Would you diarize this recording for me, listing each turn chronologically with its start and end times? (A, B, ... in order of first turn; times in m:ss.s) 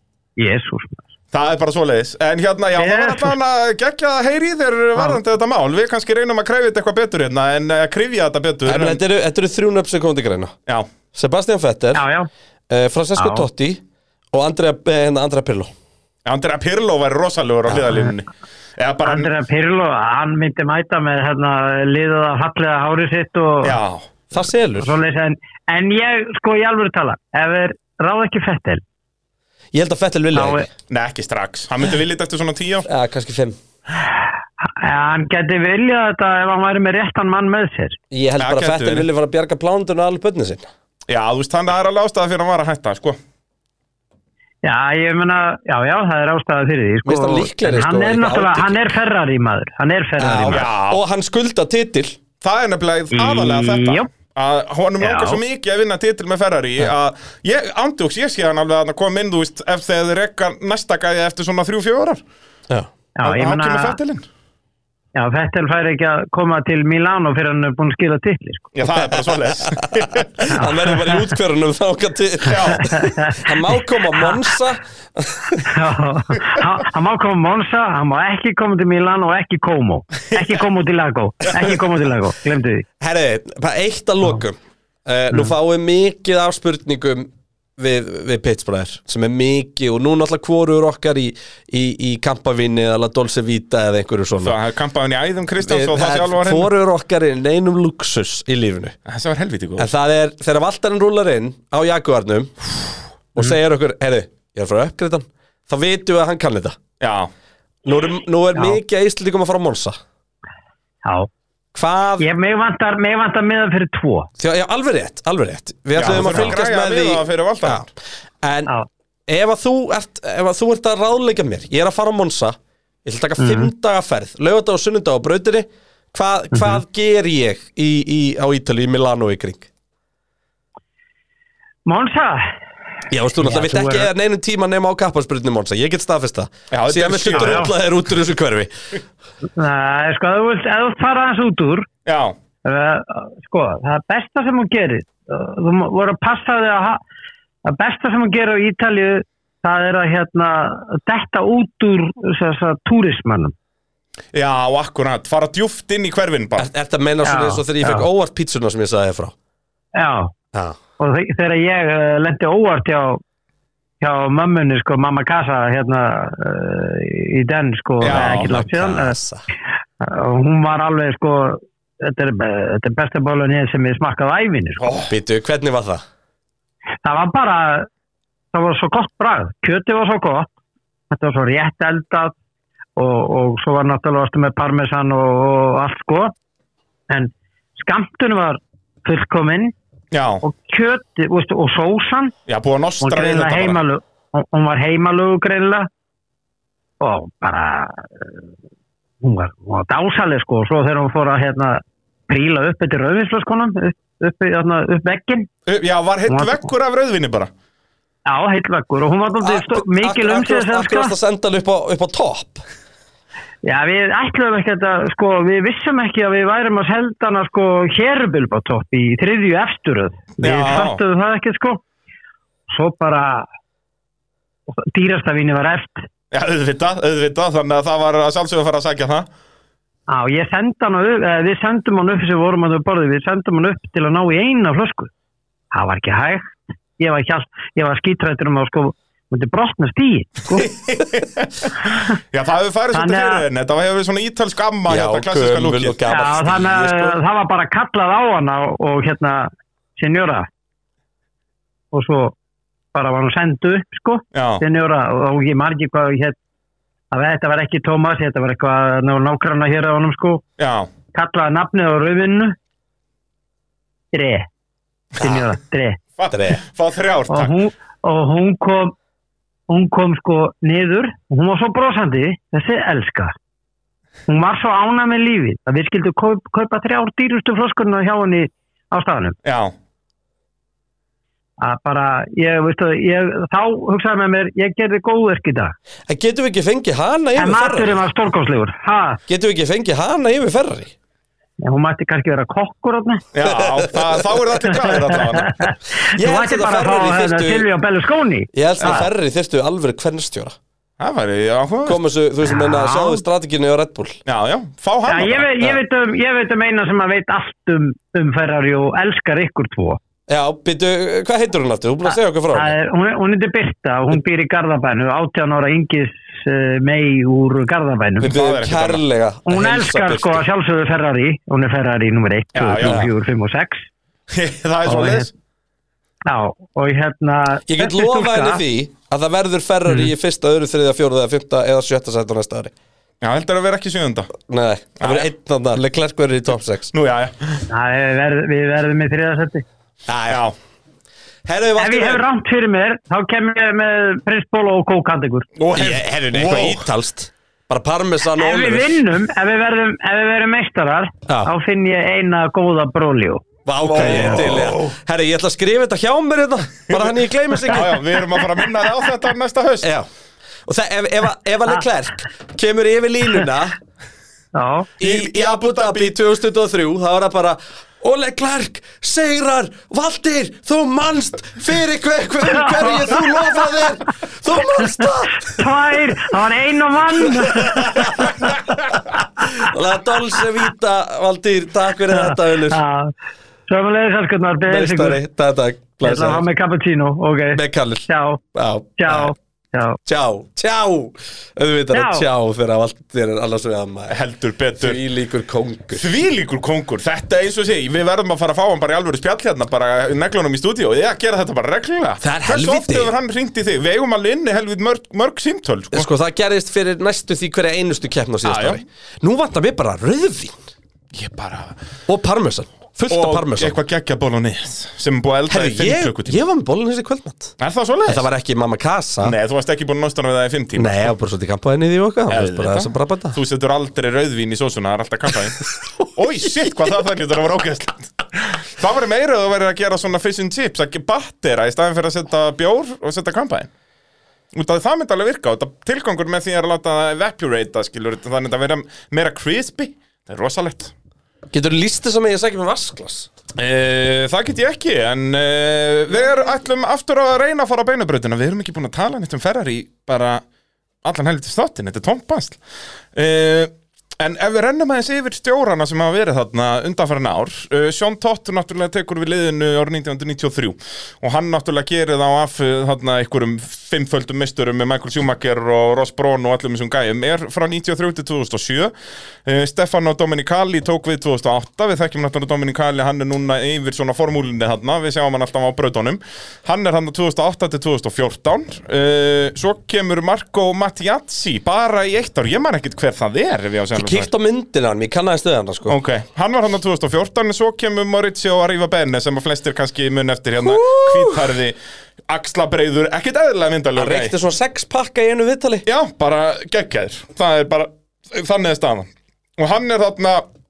0:00.4-0:01.0 A
0:01.3-0:09.0 B
0:02.8-0:03.3 A
0:08.6-0:10.5 C
0:11.1-0:12.0 C
0:11.9-0:12.3 A
0:12.7-0:13.8 C
0:13.2-0:13.4 A
0:14.3-0:15.7 C
0:16.2-0:19.3 B
0:19.0-0:23.8 A
0:23.6-0:24.1 B
0:24.3-0:24.9 C
0:24.8-0:28.8 A
0:29.7-0:30.7 C
0:30.3-0:30.7 A
0:30.9-0:32.9 B
0:32.9-0:33.6 C
0:34.6-0:38.0 A
0:38.1-0:40.7 C
0:38.4-0:39.1 B
0:41.1-0:43.2 B
0:44.6-0:50.6 A
0:47.0-0:48.9 C
0:50.2-0:52.2 C
0:50.5-0:51.0 B
0:52.4-1:02.2 B
0:53.1-0:54.1 A
0:55.0-0:55.4 A
1:03.2-1:04.0 A
1:03.2-1:04.2 B
1:05.1-1:08.7 A
1:08.7-1:10.4 B
1:09.6-1:15.7 C
1:10.5-1:11.2 A
1:12.4-1:13.0 B
1:12.8-1:13.5 A
1:15.6-1:22.8 A
1:23.0-1:34.6 C
1:34.4-1:36.7 B
1:35.6-1:39.0 C
1:39.0-1:39.9 B
1:39.8-1:46.8 C
1:47.0-1:47.3 B
1:47.8-1:50.0 C
1:51.7-1:52.3 C
1:52.2-1:54.3 A
1:54.4-1:57.9 C
1:55.9-1:57.9 B
1:58.4-1:58.7 C
1:59.3-2:09.7 C
2:03.4-2:03.7 A
2:06.5-2:06.8 A
2:11.8-2:12.5 A
2:13.1-2:18.7 C
2:13.4-2:14.1 A
2:16.7-2:17.7 B
2:17.3-2:17.7 A
2:19.6-2:21.9 A
2:22.0-2:22.4 B
2:22.6-2:27.0 A
2:27.6-2:33.5 A
2:34.3-2:36.7 B
2:36.6-2:39.3 C
2:37.2-2:38.1 A
2:39.9-2:40.3 A
2:41.0-2:43.2 A
2:44.0-2:49.2 A
2:48.0-2:48.5 B
2:48.0-2:49.4 C
2:50.0-2:54.9 A
2:54.8-2:55.1 B
2:55.1-2:56.0 C
2:57.0-2:57.9 A
2:58.5-3:00.5 A
3:01.1-3:02.3 A
3:03.0-3:06.3 A
3:07.1-3:09.7 A
3:10.1-3:10.4 B
3:10.4-3:12.3 A
3:12.5-3:13.8 B
3:13.0-3:15.9 A
3:17.0-3:18.4 A
3:19.2-3:25.5 A
3:25.6-3:27.5 B
3:26.3-3:26.6 A
3:28.2-3:31.1 A
3:29.4-3:32.6 C
3:33.6-3:41.8 A
3:40.4-3:41.0 B
3:42.7-3:43.5 A
3:44.7-3:46.0 A
3:46.3-3:49.3 B
3:50.1-3:55.1 A
3:55.7-4:00.7 A
4:00.5-4:06.0 B
4:02.9-4:03.4 A
4:04.9-4:07.2 C
4:06.1-4:10.5 A
4:11.9-4:12.3 A
4:12.9-4:16.4 A
4:14.3-4:14.6 B
4:17.1-4:20.4 A
4:20.6-4:20.9 B
4:21.1-4:22.6 A
4:24.1-4:24.5 A
4:25.2-4:26.0 A
4:26.2-4:27.6 B
4:26.3-4:26.6 C
4:27.3-4:28.9 A
4:29.7-4:33.3 A
4:34.3-4:39.4 A
4:39.4-4:39.7 B
4:41.6-4:45.7 A
4:46.1-4:48.0 C
4:47.4-4:49.2 A
4:49.3-4:50.9 C
4:51.6-4:53.2 A
4:53.3-4:55.6 B
4:53.4-4:53.9 C
4:54.7-4:59.1 A
4:56.1-4:57.7 C
4:58.5-5:00.6 C
5:01.0-5:02.0 B
5:01.8-5:04.2 C
5:02.4-5:03.2 A
5:04.2-5:05.8 B
5:05.1-5:10.0 A
5:10.3-5:12.7 C
5:12.1-5:18.3 A
5:18.2-5:20.4 C
5:18.2-5:19.0 B
5:19.5-5:23.8 A
5:22.5-5:23.1 B
5:22.8-5:23.1 C
5:24.3-5:25.3 B
5:24.9-5:25.3 A
5:26.2-5:28.6 A
5:27.7-5:32.7 C
5:33.2-5:34.3 B
5:34.4-5:36.9 C
5:35.0-5:35.3 B
5:36.9-5:37.6 B
5:37.7-5:39.6 A
5:40.1-5:40.4 C
5:40.3-5:40.5 B
5:41.4-5:42.2 C
5:41.8-5:45.5 A
5:45.6-5:46.9 B
5:45.7-5:49.0 C
5:48.4-5:54.7 A
5:51.3-5:51.5 C
5:53.6-5:58.0 C
5:53.8-5:54.9 B
5:56.9-5:59.9 B
5:59.8-6:00.1 C
6:00.6-6:03.8 C
6:04.5-6:04.9 A
6:05.0-6:06.1 B
6:05.0-6:16.0 C
6:12.4-6:13.7 A
6:15.0-6:18.6 A
6:17.1-6:22.8 C
6:22.1-6:23.1 A
6:23.7-6:25.2 A
6:24.6-6:26.4 C
6:26.0-6:28.4 A
6:27.5-6:29.3 C
6:29.0-6:30.0 A
6:30.0-6:34.2 C
6:31.9-6:32.3 A
6:34.1-6:35.0 B
6:34.8-6:36.1 C
6:35.9-6:46.1 B
6:42.2-6:43.1 C
6:45.9-6:50.6 C
6:48.4-6:48.8 B
6:51.1-6:51.8 B
6:52.1-6:53.8 C
6:53.1-6:56.4 B
6:55.5-6:59.4 C
6:57.6-6:58.3 B
6:59.2-7:01.1 B
7:00.8-7:03.4 C
7:02.3-7:05.6 B
7:05.8-7:06.1 C
7:06.1-7:13.7 B
7:14.5-7:20.9 B
7:21.5-7:23.3 C
7:23.5-7:30.4 B
7:31.0-7:32.6 B
7:33.1-7:48.9 B
7:49.4-8:04.3 B
8:03.9-8:06.0 C
8:05.9-8:11.8 B
8:10.6-8:11.5 C
8:12.3-8:14.4 B
8:14.0-8:15.8 C
8:15.8-8:20.4 B